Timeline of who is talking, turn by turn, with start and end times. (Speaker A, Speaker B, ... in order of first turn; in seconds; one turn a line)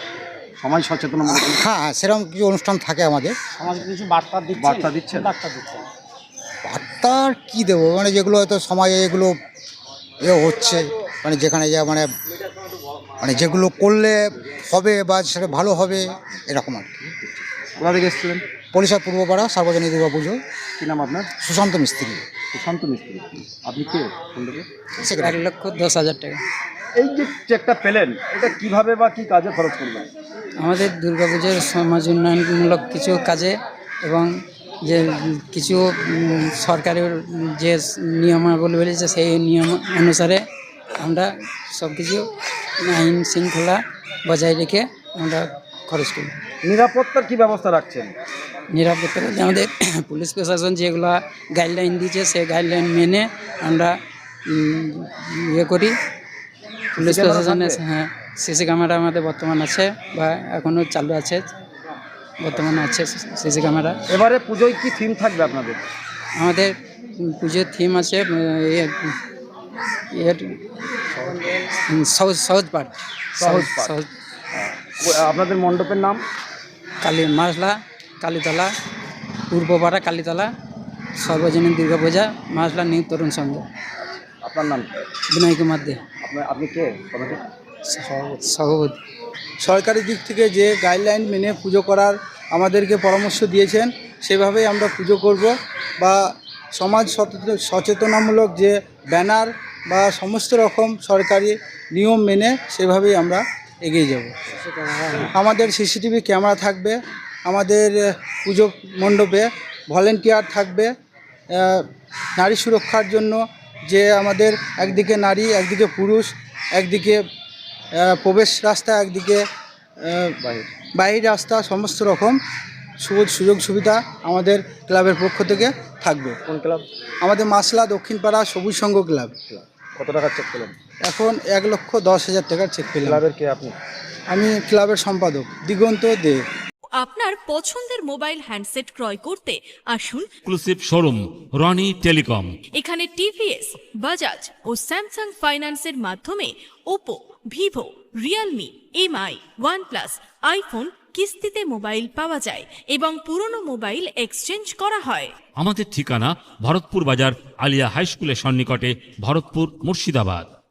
Speaker A: 0.6-1.6
Speaker B: 1.2-3.4
Speaker C: 3.6-5.8
Speaker A: 4.6-5.3
Speaker B: 6.6-9.4
Speaker B: 10.2-12.1
Speaker B: 13.2-17.0
Speaker A: 17.8-18.4
Speaker B: 18.7-20.4
Speaker A: 20.8-21.3
Speaker B: 21.4-22.2
Speaker A: 22.5-24.6
Speaker B: 25.0-25.4
Speaker C: 25.2-26.4
Speaker A: 27.0-30.1
Speaker C: 30.6-34.3
Speaker C: 34.8-40.4
Speaker C: 41.0-42.2
Speaker C: 42.8-46.4
Speaker A: 46.6-48.1
Speaker C: 48.7-54.0
Speaker C: 54.5-55.9
Speaker A: 57.0-57.8
Speaker C: 57.0-61.5
Speaker C: 62.4-64.0
Speaker A: 64.1-65.8
Speaker C: 66.4-69.1
Speaker C: 70.1-70.6
Speaker C: 71.9-74.1
Speaker A: 73.4-73.9
Speaker A: 75.0-76.2
Speaker C: 77.0-78.7
Speaker C: 79.5-80.5
Speaker C: 81.2-83.6
Speaker A: 84.5-84.9
Speaker C: 85.3-86.0
Speaker A: 86.2-87.4
Speaker C: 87.9-89.0
Speaker D: 89.6-96.2
Speaker D: 96.7-104.3
Speaker D: 105.3-110.9
Speaker D: 111.5-111.8
Speaker D: 112.4-117.2
Speaker D: 118.0-119.4
Speaker D: 120.0-120.3
Speaker A: 120.4-120.7
Speaker D: 121.0-122.4
Speaker D: 123.0-126.4
Speaker A: 126.5-126.8
Speaker D: 127.2-129.3
Speaker A: 129.5-130.8
Speaker D: 131.1-133.2
Speaker A: 133.0-133.8
Speaker D: 134.3-136.4
Speaker E: 136.9-140.3
Speaker F: 140.5-142.6
Speaker E: 142.7-155.3
Speaker F: 155.6-160.5